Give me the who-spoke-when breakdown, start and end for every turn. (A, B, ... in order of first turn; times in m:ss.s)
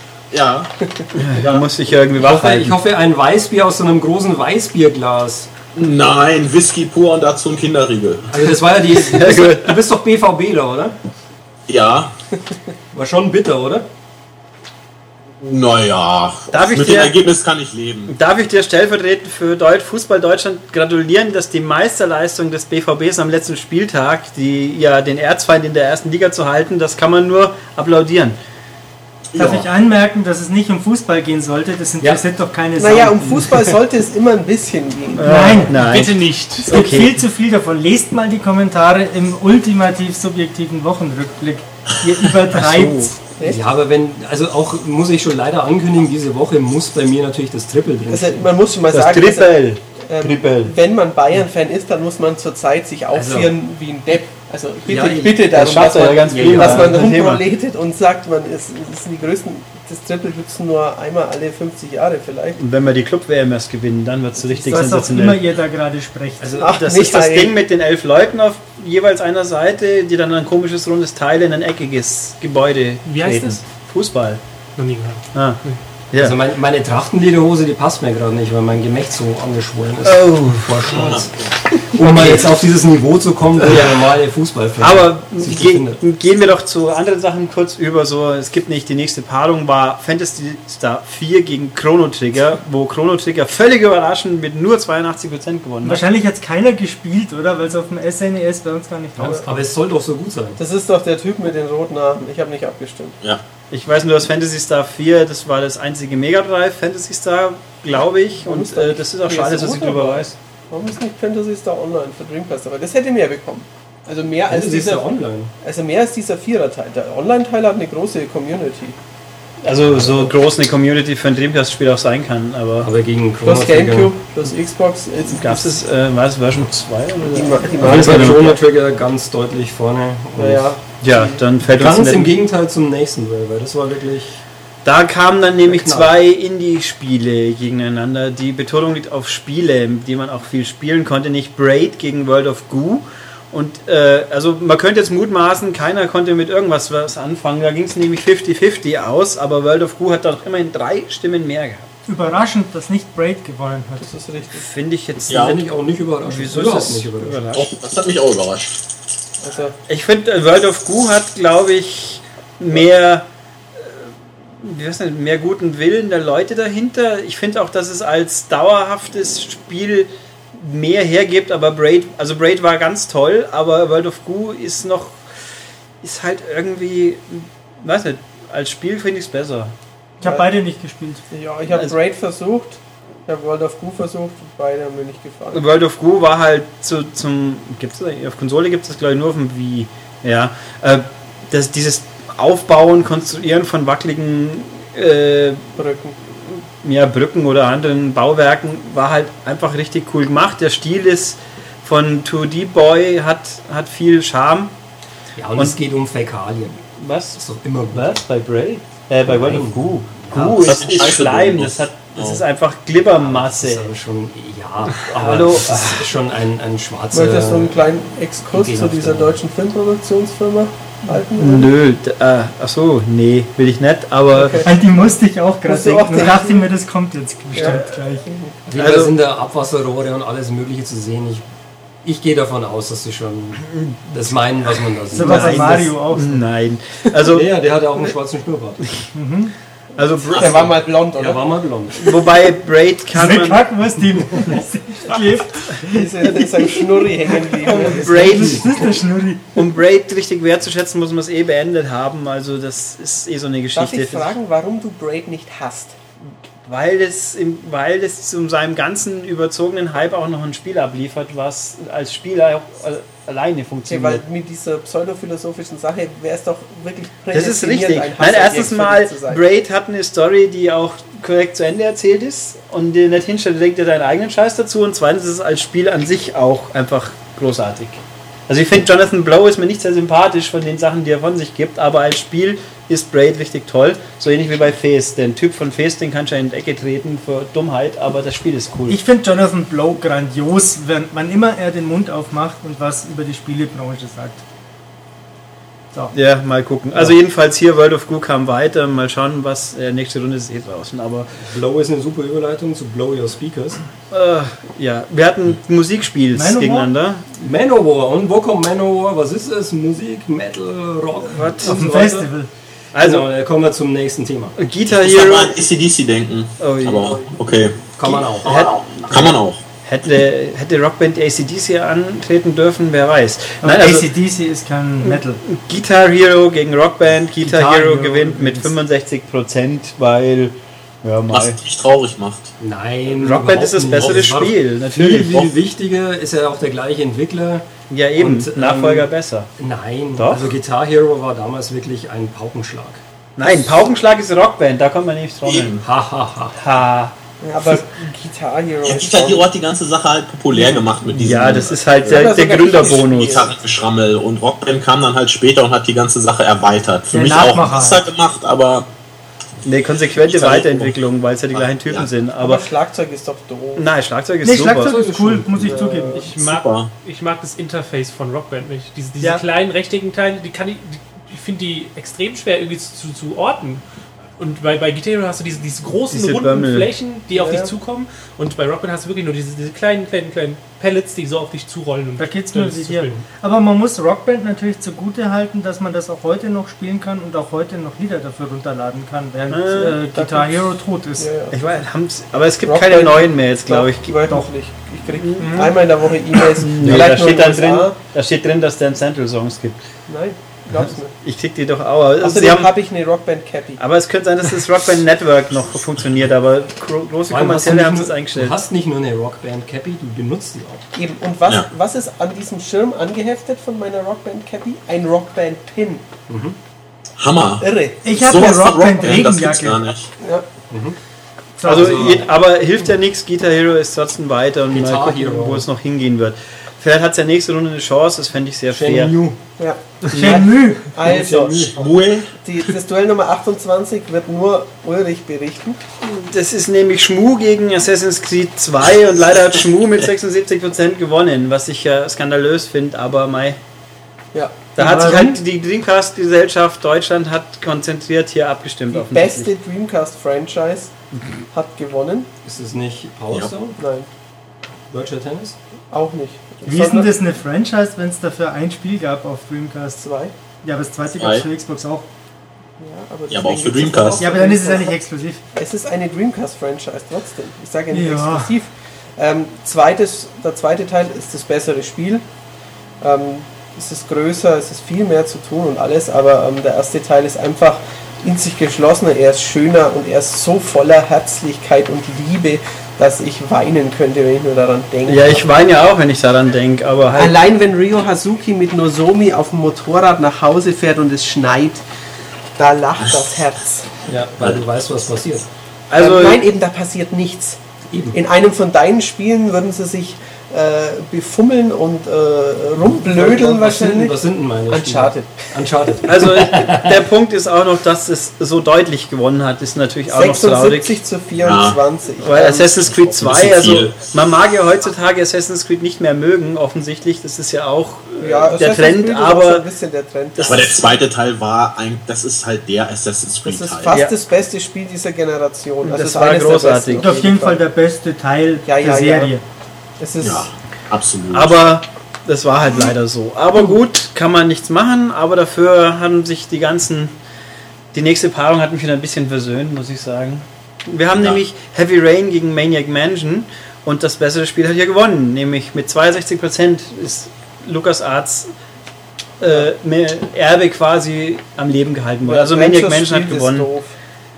0:00.3-0:00.7 A
0:00.8-0:01.1 B
0:01.1-0:02.8 C
0:02.2-0:05.5 D
0:05.8-0:08.3 A
0:08.3-0:11.0 D
0:09.0-0:09.8 C
0:11.7-0:12.1 A
0:12.9-0:13.9 D
0:15.4-0:18.1 A
0:16.5-0:17.2 C
0:18.1-0:28.4 C
0:29.3-0:29.7 A
0:29.4-0:33.6 E
0:32.8-0:35.8 B
0:35.2-0:37.2 C
0:35.2-0:36.0 E
0:35.8-0:36.8 F
0:36.6-0:43.2 E
0:42.5-0:43.1 C
0:43.4-0:48.5 D
0:48.1-0:49.5 B
0:48.9-0:50.8 C
0:50.1-1:02.6 B
0:53.1-0:53.5 D
0:54.9-0:57.1 D
0:55.5-0:57.4 C
1:02.6-1:05.4 C
1:04.6-1:06.6 E
1:06.4-1:06.7 D
1:06.6-1:07.5 B
1:06.6-1:14.4 C
1:13.0-1:13.6 F
1:14.8-1:15.8 F
1:15.3-1:15.6 C
1:16.2-1:26.0 D
1:20.0-1:20.9 C
1:20.9-1:21.5 A
1:22.0-1:22.5 C
1:23.6-1:24.1 C
1:24.8-1:36.0 C
1:35.8-1:39.6 E
1:39.2-1:40.6 D
1:40.6-1:43.2 B
1:43.7-1:50.4 C
1:48.4-1:55.1 B
1:54.5-1:55.5 D
1:55.6-1:59.0 B
1:59.6-2:02.9 C
2:00.0-2:00.3 B
2:02.8-2:04.1 D
2:03.4-2:05.8 B
2:05.3-2:08.6 C
2:07.3-2:08.6 B
2:07.8-2:10.8 D
2:10.4-2:11.4 B
2:11.0-2:12.4 C
2:11.7-2:14.4 D
2:14.8-2:31.9 C
2:15.6-2:16.2 D
2:32.1-2:34.1 E
2:34.0-2:34.7 B
2:34.6-2:35.6 C
2:35.3-2:35.6 A
2:35.3-2:37.4 D
2:36.2-2:37.7 C
2:37.6-2:38.8 A
2:39.4-2:39.8 B
2:39.9-2:55.2 C
2:56.0-2:59.7 C
3:00.2-3:01.2 E
3:01.3-3:05.6 B
3:01.7-3:02.0 C
3:05.5-3:15.6 C
3:15.8-3:16.2 B
3:16.4-3:24.7 C
3:25.4-3:26.8 D
3:27.0-3:27.4 C
3:27.4-3:28.2 D
3:27.9-3:33.9 C
3:29.3-3:30.8 D
3:30.6-3:32.4 A
3:33.2-3:37.8 D
3:35.0-3:36.1 C
3:37.1-3:41.7 B
3:38.5-3:39.4 D
3:41.4-3:44.7 C
3:44.3-3:44.7 B
3:44.6-3:48.3 E
3:45.6-3:46.6 B
3:47.5-3:48.6 B
3:48.7-3:51.4 D
3:48.8-3:49.2 C
3:52.0-3:55.8 D
3:53.7-3:54.0 C
3:55.1-3:57.5 C
3:55.1-3:56.4 E
3:57.3-3:58.8 D
3:59.1-3:59.5 E
4:00.0-4:00.6 C
4:00.0-4:01.4 B
4:01.1-4:02.3 D
4:02.0-4:03.7 C
4:03.1-4:09.6 E
4:05.9-4:08.1 B
4:07.7-4:08.8 C
4:09.6-4:14.4 C
4:13.8-4:16.0 B
4:16.6-4:24.2 C
4:23.9-4:29.4 B
4:27.3-4:49.0 C
4:48.9-4:54.4 E
4:56.1-5:01.3 C
5:01.4-5:03.8 D
5:04.1-5:07.3 C
5:06.3-5:06.9 E
5:07.4-5:12.3 D
5:11.3-5:12.0 C
5:11.6-5:12.5 E
5:12.9-5:13.3 C
5:13.0-5:14.6 D
5:14.6-5:15.5 C
5:15.0-5:17.9 A
5:16.6-5:17.2 C
5:18.0-5:18.6 D
5:18.4-5:24.1 C
5:18.5-5:19.6 A
5:23.6-5:25.4 E
5:25.0-5:31.6 C
5:27.5-5:28.2 E
5:27.5-5:28.6 D
5:31.3-5:32.5 A
5:32.6-5:37.6 D
5:33.2-5:35.5 C
5:37.9-5:39.5 C
5:38.2-5:43.0 D
5:40.2-5:40.6 C
5:43.4-5:45.8 C
5:45.4-5:45.8 A
5:45.8-5:46.6 D
5:46.6-5:47.8 C
5:47.4-5:49.5 B
5:48.8-5:58.9 A
5:50.5-5:53.5 B
5:51.2-5:53.5 C
5:57.1-5:58.0 E
5:59.6-6:02.7 C
6:00.3-6:00.9 A
6:01.5-6:02.1 A
6:02.4-6:03.9 B
6:03.8-6:05.0 C
6:04.4-6:06.3 E
6:04.8-6:06.0 D
6:05.7-6:06.3 B
6:06.1-6:13.8 F
6:06.3-6:06.9 A
6:14.4-6:23.2 F
6:16.1-6:16.9 C
6:17.3-6:17.7 B
6:22.2-6:31.3 E
6:29.5-6:30.0 C
6:30.1-6:31.6 B
6:31.5-6:34.2 C
6:32.6-6:38.0 B
6:35.2-6:35.8 C
6:36.4-6:39.8 C
6:40.1-6:41.1 B
6:40.7-6:42.7 C
6:42.2-6:43.8 B
6:43.8-6:48.6 C
6:47.3-6:50.8 D
6:50.9-6:56.1 B
6:56.3-6:56.6 D
6:57.2-7:00.1 A
6:57.6-6:58.4 B
6:58.0-6:59.8 E
7:00.7-7:01.0 D
7:01.6-7:02.2 E
7:01.6-7:09.1 C
7:01.7-7:02.2 D
7:04.7-7:05.7 D
7:08.7-7:09.4 D
7:09.6-7:11.8 B
7:10.1-7:10.4 C
7:10.1-7:10.8 E
7:11.0-7:11.8 D
7:11.8-7:12.3 A
7:12.4-7:15.8 B
7:16.0-7:23.6 C
7:24.3-7:25.3 B
7:24.8-7:29.5 C
7:24.8-7:25.4 E
7:28.9-7:30.9 B
7:31.5-7:32.3 B
7:32.4-7:33.8 D
7:33.8-7:34.1 B
7:34.9-7:35.6 D
7:35.9-7:37.2 B
7:36.7-7:40.0 E
7:40.0-7:40.3 B
7:40.6-7:42.1 E
7:41.2-7:41.4 A
7:42.8-7:45.0 B
7:43.3-7:44.3 A
7:44.2-7:45.4 E
7:45.5-7:52.3 B
7:47.9-7:48.5 E
7:53.0-8:05.5 B
8:05.1-8:07.4 C
8:07.2-8:11.8 B
8:12.6-8:13.9 B
8:13.0-8:13.4 A
8:14.1-8:15.5 D
8:15.9-8:16.4 C
8:16.0-8:17.6 B
8:17.9-8:18.2 D
8:18.1-8:24.1 B
8:23.0-8:27.0 D
8:24.7-8:25.4 B
8:26.0-8:31.0 C
8:30.1-8:32.8 B
8:31.4-8:31.8 A
8:32.2-8:39.7 C
8:33.0-8:34.0 A
8:38.2-8:41.0 B
8:40.4-8:44.0 A
8:43.4-8:47.6 B
8:43.9-8:44.1 C
8:45.8-8:47.1 C
8:47.0-8:49.4 E
8:48.6-8:49.3 B
8:50.0-8:50.5 B
8:50.2-8:51.6 A
8:51.3-8:57.1 C
8:57.9-9:08.5 C
9:09.4-9:13.7 C
9:09.4-9:09.7 B
9:12.2-9:14.0 B